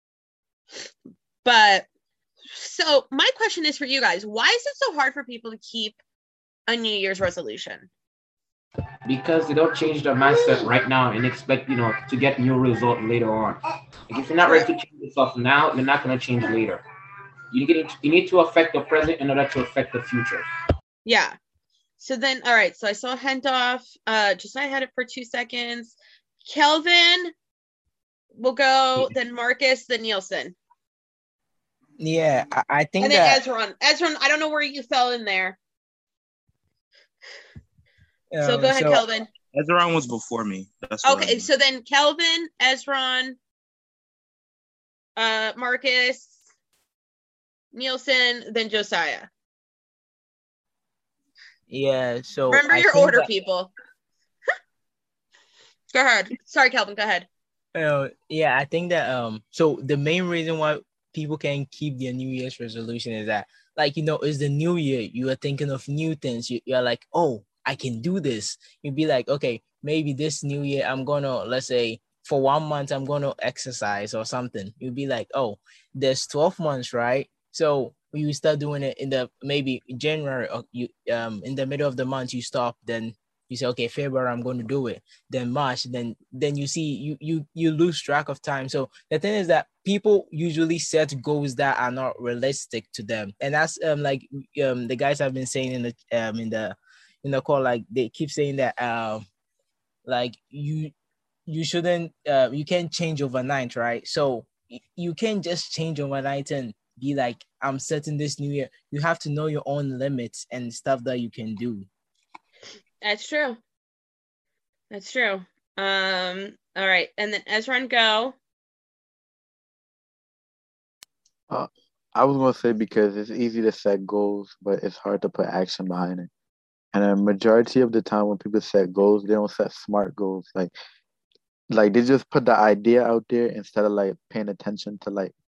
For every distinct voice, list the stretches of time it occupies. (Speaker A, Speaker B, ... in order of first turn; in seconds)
Speaker A: 1.4-1.9, 2.5-6.0, 6.7-7.9, 21.0-21.4, 22.0-27.3, 28.3-30.6, 33.0-35.6, 38.4-39.3, 41.0-43.4, 45.2-46.4, 47.7-49.3, 52.5-53.7, 55.9-57.3, 113.0-113.6, 114.9-118.3
Speaker B: 9.1-16.8, 17.5-20.4
Speaker C: 32.0-33.4, 38.3-39.0, 51.7-53.3, 57.7-99.2, 100.0-100.9, 101.5-111.9
Speaker D: 39.5-41.5
Speaker E: 121.5-126.3, 126.9-130.7, 131.7-135.3